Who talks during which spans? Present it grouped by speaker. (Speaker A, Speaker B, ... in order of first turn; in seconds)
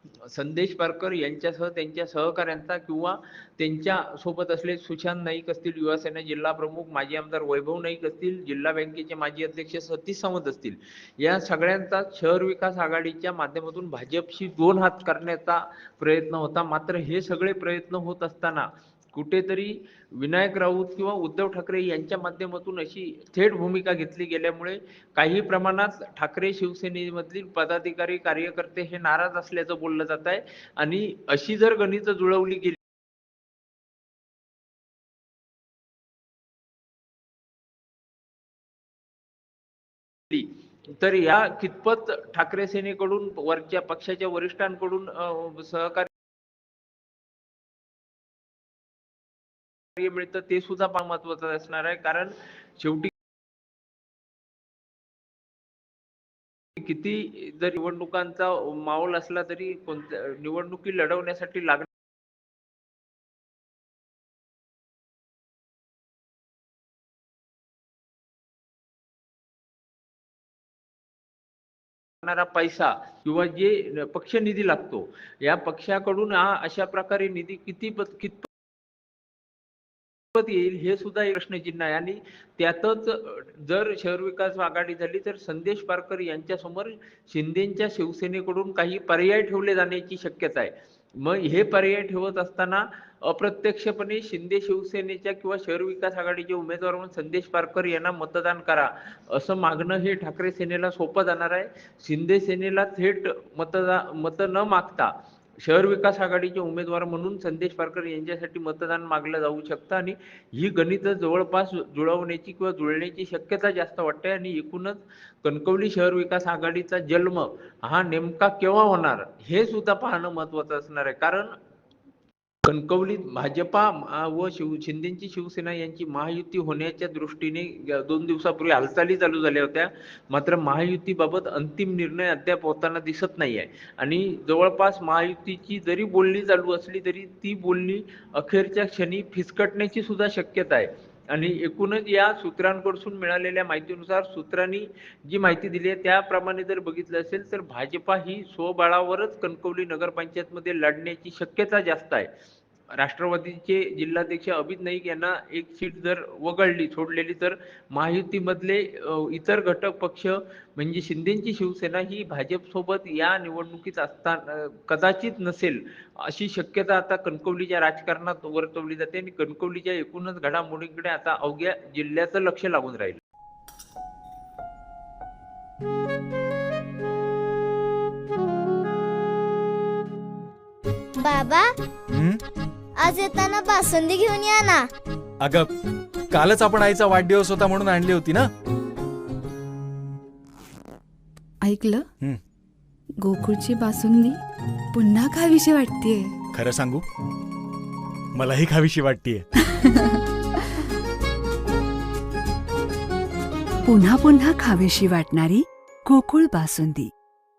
Speaker A: 0.2-32.8, 40.3-46.1, 50.0-53.1, 56.8-61.9, 72.2-78.5, 80.3-121.5, 122.6-152.3, 152.9-173.2
Speaker B: 181.2-181.7, 183.0-184.9
Speaker C: 182.1-182.4, 185.4-185.7, 186.3-188.5, 196.5-197.0, 198.3-199.4
Speaker D: 191.6-192.0, 193.2-194.4, 194.9-196.3
Speaker E: 203.9-207.1